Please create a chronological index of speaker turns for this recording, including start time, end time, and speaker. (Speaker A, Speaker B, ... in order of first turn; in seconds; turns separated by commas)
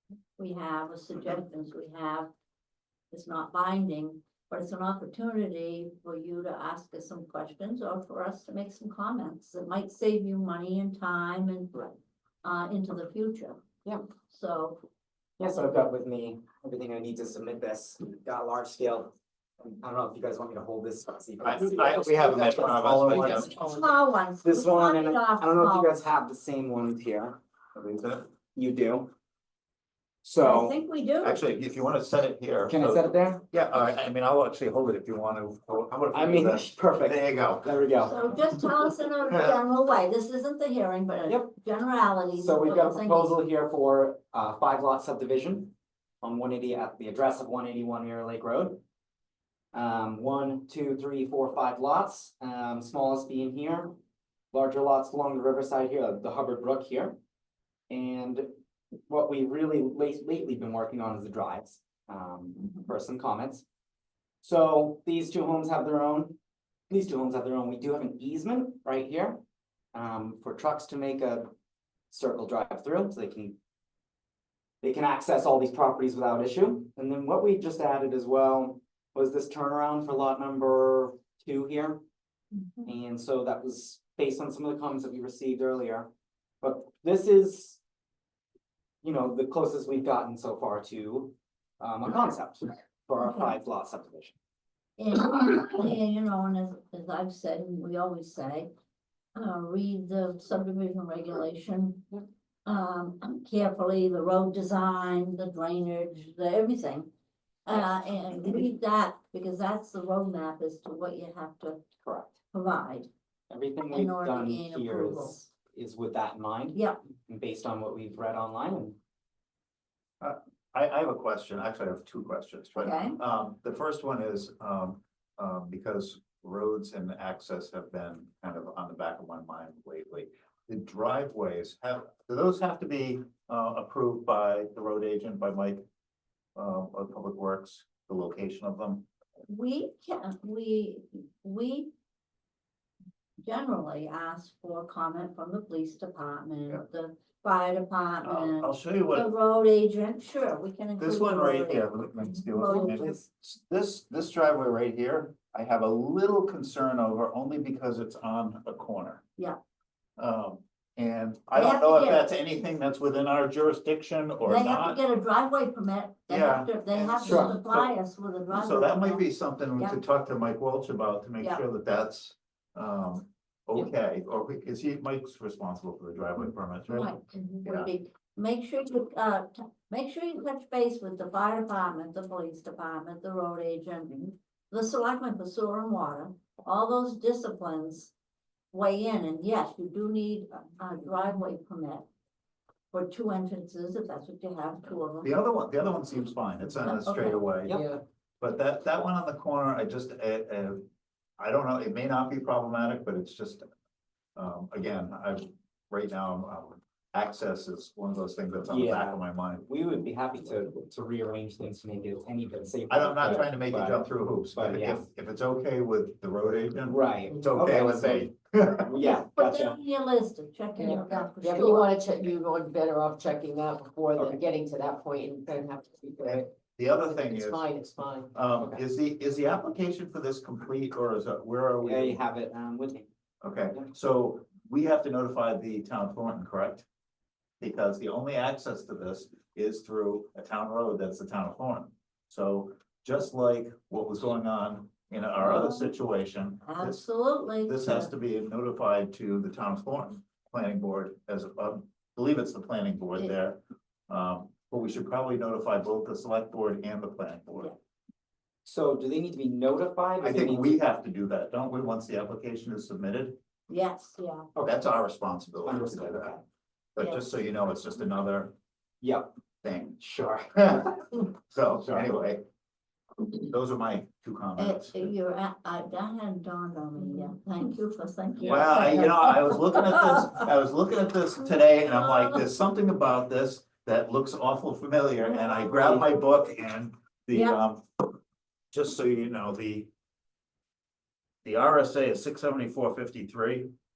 Speaker A: 0.4-2.3, Speaker A: 3.1-11.9, Speaker A: 12.4-13.6, Speaker A: 14.2-14.8, Speaker B: 15.4-23.7, Speaker C: 21.4-23.5, Speaker A: 23.2-26.0, Speaker B: 24.4-27.4, Speaker C: 27.8-28.2, Speaker B: 28.5-29.1, Speaker B: 30.2-30.7, Speaker A: 30.4-31.4, Speaker C: 31.2-37.7, Speaker B: 32.7-33.4, Speaker B: 36.1-38.2, Speaker A: 38.0-43.4, Speaker C: 39.3-39.5, Speaker B: 42.3-48.8, Speaker B: 49.7-54.0, Speaker B: 54.5-57.2, Speaker B: 57.9-58.5, Speaker B: 59.1-63.6, Speaker B: 64.4-66.4, Speaker B: 66.9-69.4, Speaker B: 69.9-71.5, Speaker B: 72.1-73.5, Speaker B: 74.8-82.0, Speaker B: 82.8-86.1, Speaker B: 86.6-87.8, Speaker B: 89.0-94.3, Speaker A: 93.2-93.5, Speaker A: 95.0-98.7, Speaker A: 99.3-102.1, Speaker A: 102.6-107.1, Speaker A: 107.7-111.8, Speaker B: 112.0-112.4, Speaker A: 112.5-113.1, Speaker B: 113.5-119.0, Speaker A: 113.9-115.4, Speaker C: 120.2-135.8, Speaker A: 122.8-123.2, Speaker C: 136.6-139.1, Speaker A: 139.5-141.9, Speaker A: 143.4-151.9, Speaker C: 148.2-149.3, Speaker C: 151.0-159.2, Speaker A: 152.4-153.1, Speaker C: 160.2-165.0, Speaker A: 161.5-162.2, Speaker A: 164.4-169.2, Speaker C: 166.3-167.9, Speaker B: 167.2-167.5, Speaker C: 168.5-177.1, Speaker A: 176.9-188.1, Speaker C: 177.6-177.9, Speaker A: 188.7-192.1, Speaker A: 192.9-195.3, Speaker C: 195.2-197.8, Speaker A: 196.8-197.4, Speaker D: 197.7-198.0, Speaker C: 198.4-200.8, Speaker C: 201.4-203.6, Speaker C: 204.3-209.6, Speaker B: 208.7-215.1, Speaker C: 212.9-218.9, Speaker B: 216.8-218.2, Speaker B: 218.8-219.8, Speaker A: 219.0-221.9, Speaker D: 220.8-228.8, Speaker B: 224.1-224.4, Speaker C: 226.2-227.6, Speaker C: 228.3-232.2, Speaker B: 231.8-233.1, Speaker C: 233.4-236.8, Speaker C: 237.6-247.0, Speaker A: 245.4-245.9, Speaker A: 246.6-248.1, Speaker C: 247.6-257.7, Speaker B: 258.6-260.8, Speaker C: 260.2-263.4, Speaker A: 263.7-264.4, Speaker B: 264.5-264.8, Speaker C: 264.6-266.4, Speaker B: 265.6-266.4, Speaker C: 266.9-268.5, Speaker B: 269.0-269.3, Speaker C: 269.6-270.0, Speaker B: 270.0-271.1, Speaker C: 270.6-272.4, Speaker C: 273.3-275.0, Speaker A: 274.6-280.3, Speaker C: 278.4-287.8, Speaker A: 281.9-282.3, Speaker A: 285.3-286.1, Speaker A: 287.3-287.6, Speaker C: 288.7-289.9, Speaker C: 291.4-293.7